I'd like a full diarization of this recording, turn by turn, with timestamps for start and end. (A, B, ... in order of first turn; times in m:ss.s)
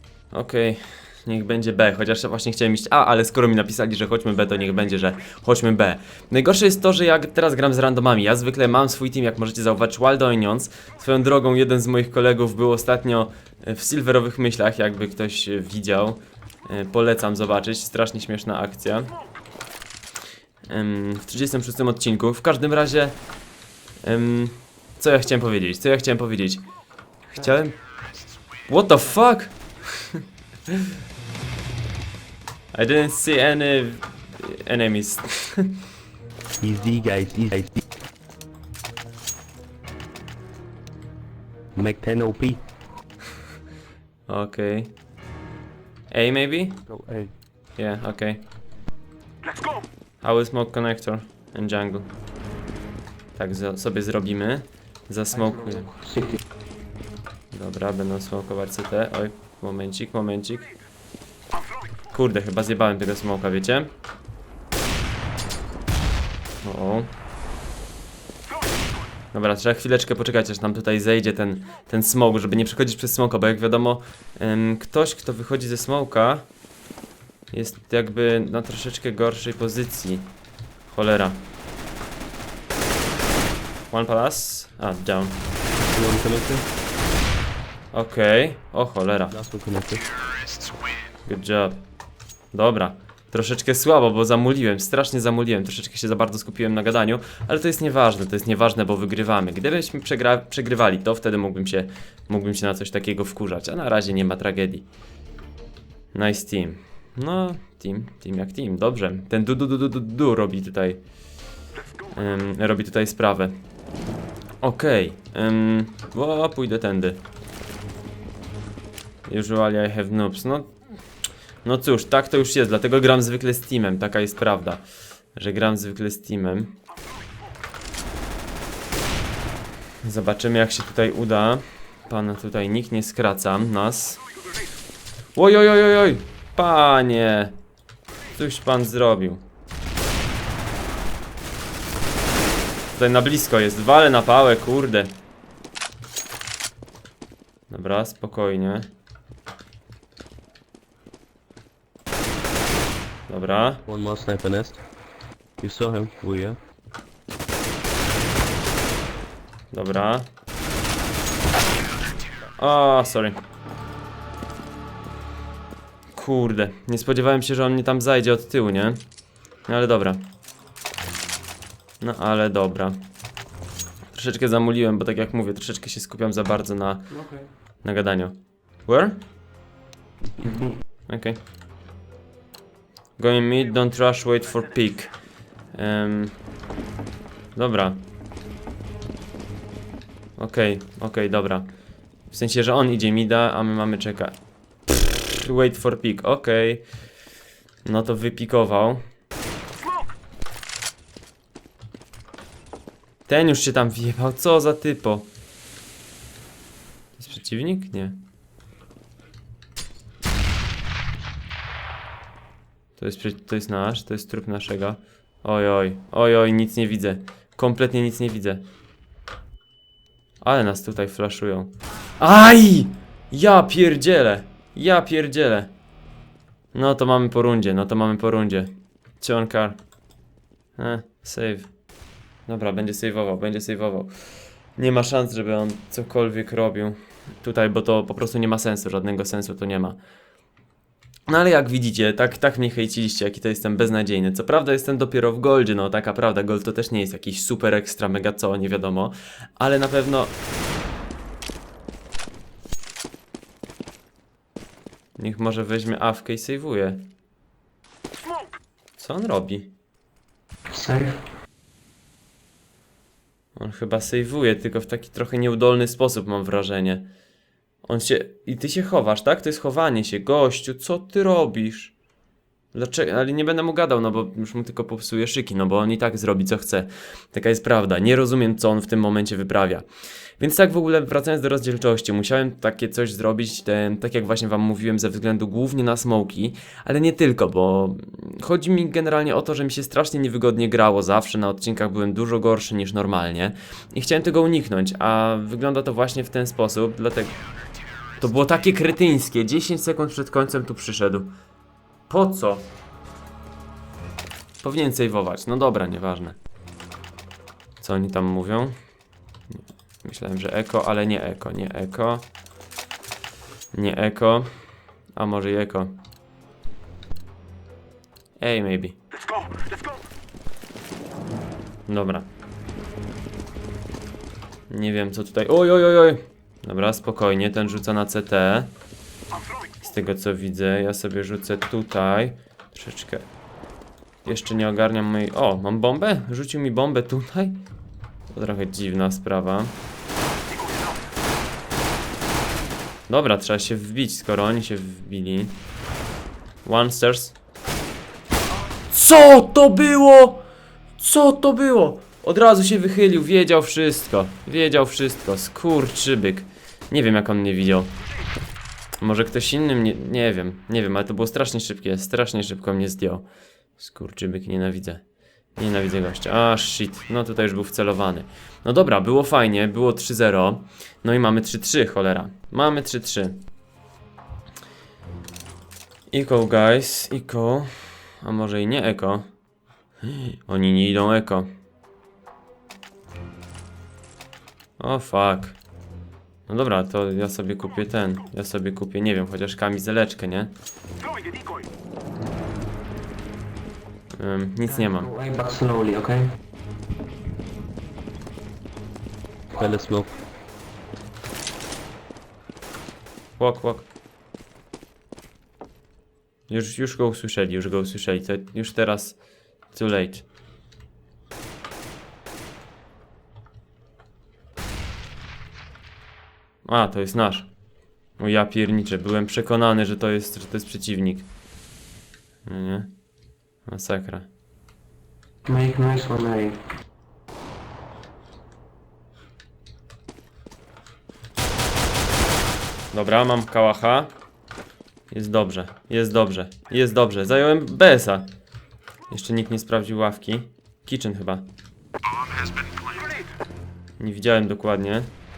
0:00.3-0:19.1 A
0:20.7-0:23.2 A
0:24.0-0:26.6 A
0:27.3-0:27.8 A
0:28.7-0:30.8 A
0:32.7-0:35.7 A
0:36.6-0:37.8 B
0:41.7-0:42.6 B
0:44.3-0:44.9 A
0:46.1-0:46.8 A
0:46.9-0:47.3 B
0:47.8-0:48.4 A
0:50.2-0:52.1 A
0:53.3-0:56.0 A
0:56.0-0:56.4 C
0:57.5-1:00.7 A
1:02.1-1:03.9 A
1:06.6-1:07.1 A
1:09.3-1:16.4 A
1:17.5-1:20.3 A
1:20.9-1:21.4 A
1:23.9-1:25.4 A
1:25.9-1:26.6 B
1:27.9-1:29.3 A
1:29.3-1:30.1 B
1:31.3-1:31.8 A
1:32.5-1:44.8 A
1:46.1-1:51.0 A
1:52.1-1:53.5 A
1:54.6-1:57.2 A
1:59.3-2:00.7 A
2:01.6-2:04.8 A
2:05.3-2:06.7 A
2:10.0-2:14.2 A
2:15.4-2:17.5 A
2:18.3-2:19.4 A
2:22.9-2:25.1 A
2:27.7-2:28.9 A
2:33.3-2:33.8 A
2:33.9-2:34.8 B
2:35.6-2:36.6 B
2:39.7-2:40.3 A
2:42.6-2:43.4 A
2:46.1-2:49.0 A
2:49.7-2:50.2 A
2:52.0-2:53.0 A
2:54.1-2:57.1 A
2:57.8-2:59.2 A
3:00.4-3:00.8 C
3:01.1-3:01.4 A
3:03.2-3:05.1 A
3:05.7-3:06.4 A
3:07.5-3:08.0 A
3:10.4-3:11.7 A
3:12.3-3:14.3 A
3:15.0-3:16.8 A
3:17.8-3:19.0 A
3:23.3-3:25.3 A
3:27.2-3:28.2 A
3:33.0-3:38.6 A
3:40.4-3:45.7 A
3:46.7-3:49.8 A
3:50.8-3:51.7 A
3:52.5-3:54.1 A
3:54.8-4:00.0 A
4:01.3-4:10.3 A
4:15.2-4:17.0 A
4:19.0-4:19.7 A
4:20.7-4:21.2 C
4:23.6-4:27.1 A
4:27.8-4:31.9 A
4:32.7-4:39.8 A
4:40.4-4:57.3 A
4:58.2-5:01.3 A
5:02.1-5:02.7 A
5:04.6-5:06.4 A
5:07.8-5:08.7 A
5:10.0-5:12.2 A
5:13.7-5:14.5 A
5:15.1-5:15.9 A
5:18.4-5:18.9 A
5:21.9-5:22.3 A
5:24.7-5:28.7 A
5:29.8-5:33.2 A
5:34.2-5:37.6 A
5:38.3-5:39.7 A
5:43.1-5:45.6 A
5:46.6-5:47.3 A
5:48.9-5:50.4 A
5:51.0-5:57.9 A
5:59.0-6:03.2 A
6:03.8-6:05.0 A
6:05.6-6:13.4 A
6:16.1-6:17.7 A
6:18.2-6:19.3 A
6:20.0-6:21.5 A
6:24.8-6:25.6 A
6:26.5-6:30.5 A
6:34.2-6:35.1 A
6:34.8-6:36.3 C
6:39.5-6:40.1 B
6:43.4-6:43.9 A
6:46.5-6:49.2 A
6:49.7-6:50.2 A
6:56.6-6:57.5 A
6:58.2-7:01.3 A
7:02.4-7:02.9 A
7:03.7-7:04.2 A
7:05.4-7:06.6 C
7:12.9-7:14.1 A
7:15.1-7:18.3 A
7:19.1-7:21.4 A
7:24.0-7:25.1 A